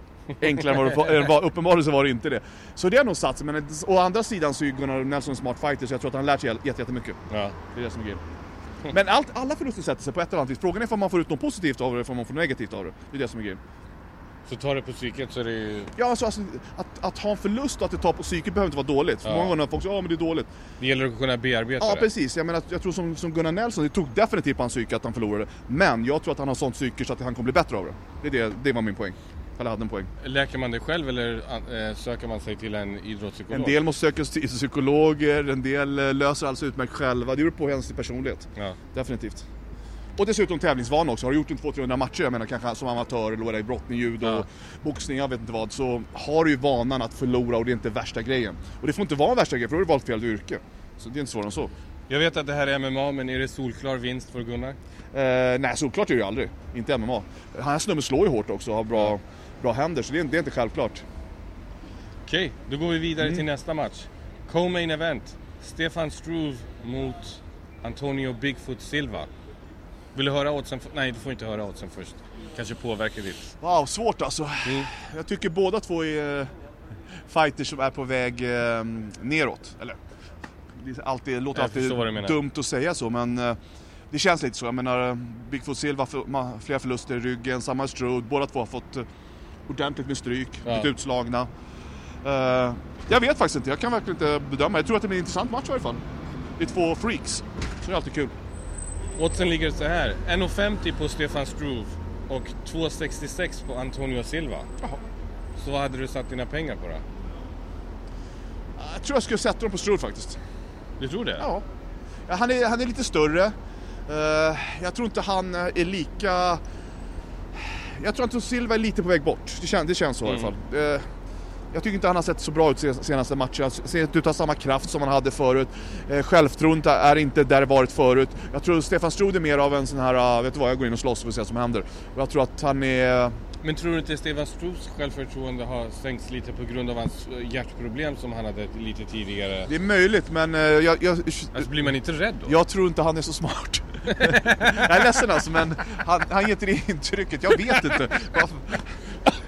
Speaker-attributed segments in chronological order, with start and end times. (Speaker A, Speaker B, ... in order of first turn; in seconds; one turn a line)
Speaker A: 0.4-7.2
Speaker B: 7.3-7.6
Speaker A: 7.7-8.2
Speaker A: 8.9-13.6
Speaker B: 14.5-15.9
Speaker A: 15.9-20.5
Speaker B: 19.2-19.6
Speaker B: 20.8-22.1
Speaker A: 21.8-30.1
Speaker B: 30.2-33.8
Speaker A: 33.5-39.4
Speaker A: 40.2-51.7
Speaker B: 44.2-44.5
Speaker B: 52.1-54.8
Speaker A: 55.1-61.0
Speaker B: 62.2-69.3
Speaker B: 70.2-73.5
Speaker A: 73.6-76.5
Speaker A: 77.2-80.0
Speaker A: 80.8-83.6
Speaker B: 81.5-82.4
Speaker A: 84.1-89.1
Speaker A: 89.7-91.5
Speaker B: 90.7-90.9
Speaker A: 92.2-96.0
Speaker A: 96.6-98.3
Speaker B: 99.2-104.7
Speaker B: 105.6-107.0
Speaker A: 108.8-110.4
Speaker B: 111.0-111.5
Speaker A: 111.4-111.7
Speaker A: 112.3-113.5
Speaker A: 114.1-116.6
Speaker A: 117.5-121.0
Speaker B: 120.2-120.5
Speaker A: 121.7-133.3
Speaker B: 133.6-139.7
Speaker A: 139.7-141.7
Speaker B: 141.5-142.6
Speaker A: 142.5-149.0
Speaker B: 144.2-145.0